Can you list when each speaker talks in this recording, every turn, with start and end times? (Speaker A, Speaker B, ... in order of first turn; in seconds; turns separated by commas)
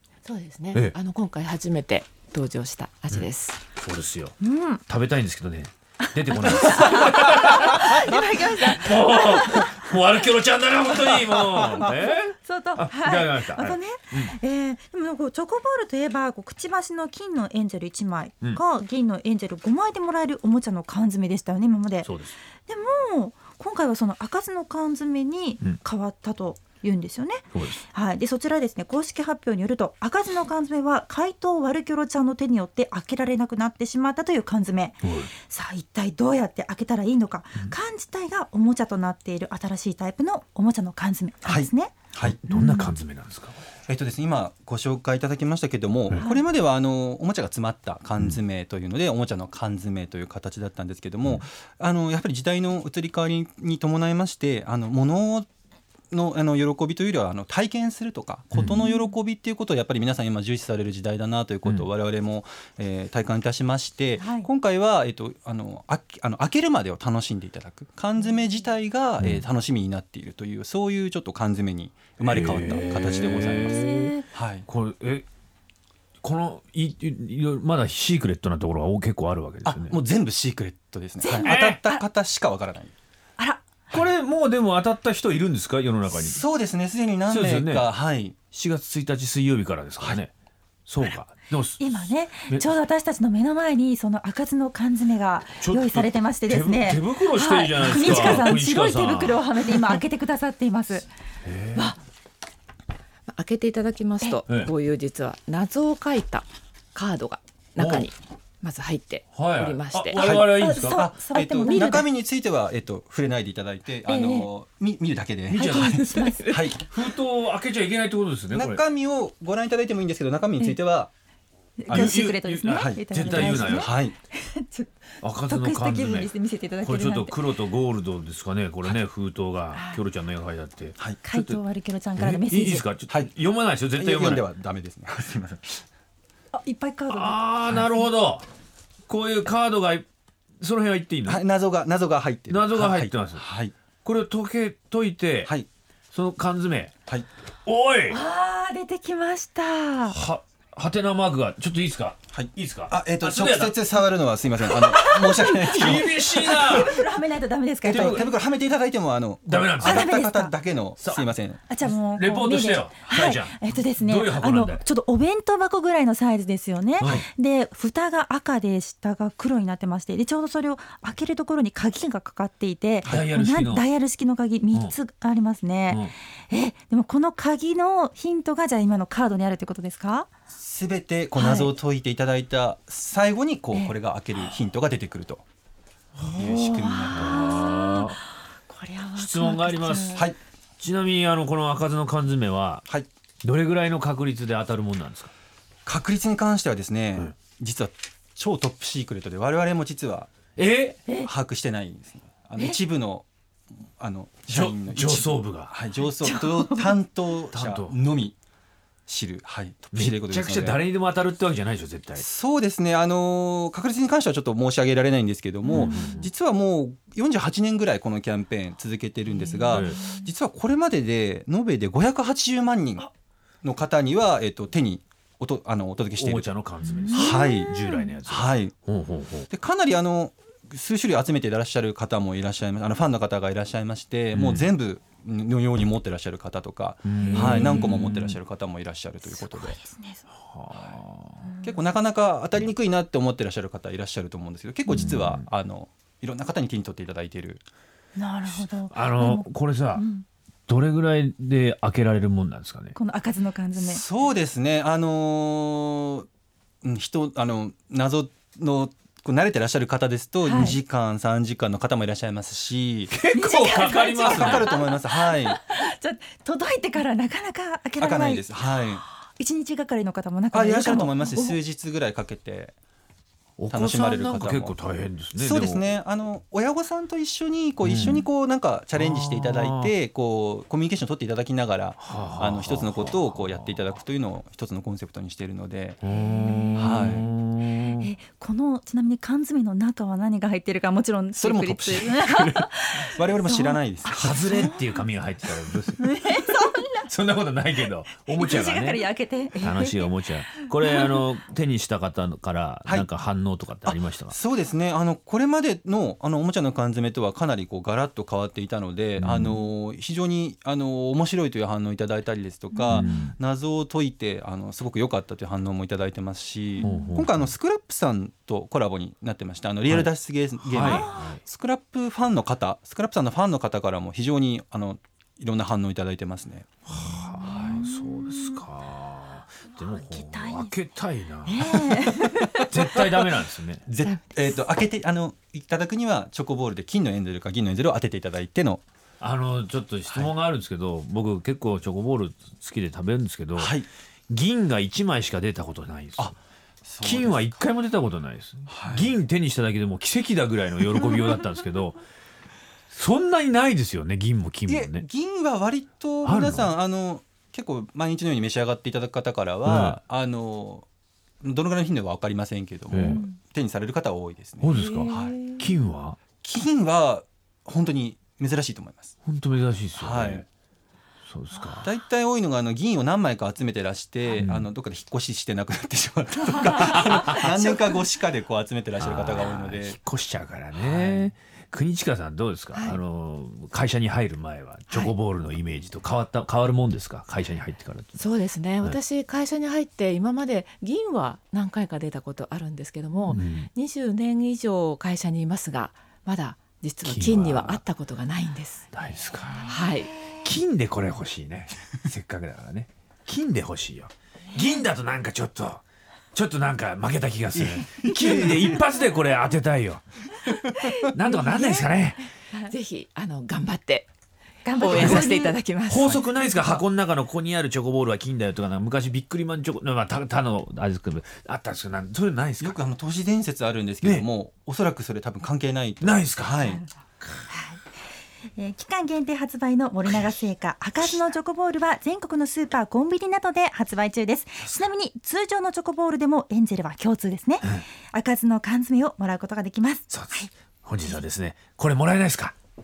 Speaker A: 0.2-3.6, Speaker B: 3.8-4.3, Speaker C: 4.4-4.8, Speaker B: 4.9-14.3, Speaker C: 6.3-9.8, Speaker C: 11.5-42.0, Speaker B: 22.0-22.3, Speaker B: 27.5-27.8, Speaker B: 35.0-35.3, Speaker D: 41.4-42.4, Speaker B: 42.2-43.6, Speaker C: 42.5-42.9, Speaker D: 43.9-55.5, Speaker D: 56.1-74.7, Speaker B: 58.5-58.8, Speaker C: 64.2-64.5, Speaker B: 72.2-74.1, Speaker C: 72.6-74.3, Speaker B: 74.7-75.2, Speaker B: 76.2-80.0, Speaker D: 79.6-82.9, Speaker C: 81.2-82.0, Speaker B: 81.4-81.8, Speaker C: 83.4-83.7, Speaker B: 83.9-86.4, Speaker D: 86.1-88.4, Speaker B: 87.3-87.9, Speaker B: 88.5-90.3, Speaker B: 90.9-91.8, Speaker C: 91.8-101.1, Speaker B: 95.6-99.4, Speaker B: 101.4-101.9, Speaker A: 103.3-110.2, Speaker B: 107.8-108.1, Speaker B: 109.3-111.0, Speaker D: 110.2-116.8, Speaker C: 110.5-112.1, Speaker A: 111.7-112.0, Speaker C: 114.1-114.5, Speaker B: 115.5-116.1, Speaker C: 115.6-116.7, Speaker A: 115.9-116.7, Speaker B: 116.7-118.8, Speaker D: 118.5-121.1, Speaker C: 121.8-127.4, Speaker B: 121.9-123.9, Speaker D: 122.6-124.2, Speaker B: 125.2-126.3, Speaker B: 126.8-131.6, Speaker C: 129.7-130.0, Speaker C: 131.2-132.9, Speaker B: 132.2-134.4, Speaker D: 134.0-135.8, Speaker C: 136.5-138.0, Speaker B: 137.1-138.4, Speaker B: 139.1-140.0, Speaker B: 140.6-141.4, Speaker D: 141.2-143.7, Speaker B: 142.5-143.4, Speaker B: 144.0-145.5, Speaker B: 146.1-146.9, Speaker B: 147.6-148.2, Speaker C: 148.1-150.2, Speaker B: 150.1-153.8, Speaker D: 152.3-157.0, Speaker C: 154.7-158.3, Speaker B: 155.5-157.0, Speaker D: 157.8-161.6, Speaker B: 157.9-158.3, Speaker B: 159.4-160.2, Speaker C: 159.8-160.6, Speaker B: 161.0-161.3, Speaker C: 161.7-180.3, Speaker B: 161.8-164.8, Speaker D: 167.0-167.2, Speaker B: 167.0-167.2, Speaker B: 173.1-173.8, Speaker D: 180.5-185.4, Speaker C: 181.4-181.7, Speaker C: 186.2-190.2, Speaker D: 186.3-187.7, Speaker B: 187.1-188.2, Speaker B: 189.1-190.3, Speaker B: 190.8-192.8, Speaker B: 193.4-195.3, Speaker D: 195.8-200.3, Speaker B: 200.6-201.0, Speaker D: 201.2-203.2, Speaker D: 204.0-208.4, Speaker B: 204.5-205.7, Speaker C: 206.2-206.9, Speaker B: 207.5-208.0, Speaker D: 209.1-210.8, Speaker B: 209.9-212.2, Speaker D: 212.2-223.1, Speaker B: 215.7-216.3, Speaker C: 215.7-216.1, Speaker C: 219.5-220.2, Speaker B: 219.7-220.0, Speaker D: 223.6-226.5, Speaker B: 226.2-229.5, Speaker C: 227.0-228.1, Speaker D: 227.1-228.7, Speaker D: 229.5-239.8, Speaker B: 234.3-234.7, Speaker B: 237.0-238.3, Speaker C: 237.3-238.1, Speaker C: 239.3-240.2, Speaker B: 240.4-241.4, Speaker D: 240.7-241.0, Speaker C: 241.4-241.8, Speaker D: 241.6-247.6, Speaker B: 244.9-245.4, Speaker C: 248.2-250.2, Speaker B: 248.5-250.0, Speaker B: 250.7-252.9, Speaker C: 252.9-254.0, Speaker D: 253.8-256.2, Speaker D: 256.8-263.1, Speaker C: 260.4-260.8, Speaker B: 263.1-264.7, Speaker C: 263.3-271.6, Speaker D: 264.2-265.6, Speaker D: 268.0-269.0, Speaker D: 270.5-272.7, Speaker B: 273.6-275.9, Speaker D: 273.7-274.8, Speaker D: 275.4-286.0, Speaker B: 277.8-278.2, Speaker B: 278.9-279.9, Speaker B: 282.0-283.9, Speaker B: 286.0-288.1, Speaker C: 286.1-294.9, Speaker D: 286.8-287.3, Speaker D: 291.4-294.6, Speaker B: 294.1-304.4, Speaker C: 296.0-297.1, Speaker C: 298.3-301.2, Speaker D: 303.8-326.7, Speaker B: 309.2-309.6, Speaker C: 312.7-313.1, Speaker B: 312.9-313.3, Speaker C: 316.8-317.1, Speaker B: 316.8-317.4, Speaker B: 320.7-321.4, Speaker C: 320.8-321.4, Speaker B: 326.9-332.0, Speaker D: 327.4-327.9, Speaker C: 327.4-328.6, Speaker C: 329.8-330.7, Speaker C: 331.4-332.9, Speaker B: 332.5-333.8, Speaker D: 333.9-338.8, Speaker A: 334.0-334.4, Speaker B: 339.2-343.8, Speaker D: 340.1-340.3, Speaker D: 343.6-343.9, Speaker B: 344.3-346.4, Speaker D: 346.2-347.6, Speaker B: 347.0-352.0, Speaker D: 348.7-349.1, Speaker B: 352.9-355.0, Speaker D: 354.7-360.9, Speaker B: 356.2-356.7, Speaker B: 359.6-360.0, Speaker D: 361.4-365.4, Speaker B: 362.9-363.2, Speaker C: 362.9-363.4, Speaker B: 364.6-366.2, Speaker C: 364.7-365.7, Speaker D: 366.4-369.2, Speaker B: 369.2-370.4, Speaker D: 370.0-370.4, Speaker B: 371.3-371.9, Speaker D: 371.8-380.0, Speaker B: 374.4-374.7, Speaker C: 376.5-377.9, Speaker B: 376.9-377.4, Speaker B: 379.0-388.2, Speaker D: 380.7-381.3, Speaker A: 382.7-383.0, Speaker A: 384.9-385.1, Speaker A: 388.1-398.9, Speaker B: 393.3-393.7, Speaker B: 397.0-397.8, Speaker B: 398.9-399.8, Speaker A: 399.6-400.2, Speaker B: 400.4-405.8, Speaker B: 406.3-412.3, Speaker D: 407.5-408.8, Speaker C: 410.8-411.6, Speaker A: 411.3-411.9, Speaker A: 412.5-414.1, Speaker C: 414.6-415.6, Speaker A: 414.7-416.7, Speaker B: 414.9-415.3, Speaker B: 415.9-422.8, Speaker D: 422.6-426.8, Speaker B: 426.0-426.6, Speaker C: 427.5-428.0, Speaker C: 428.6-440.5, Speaker B: 440.1-442.5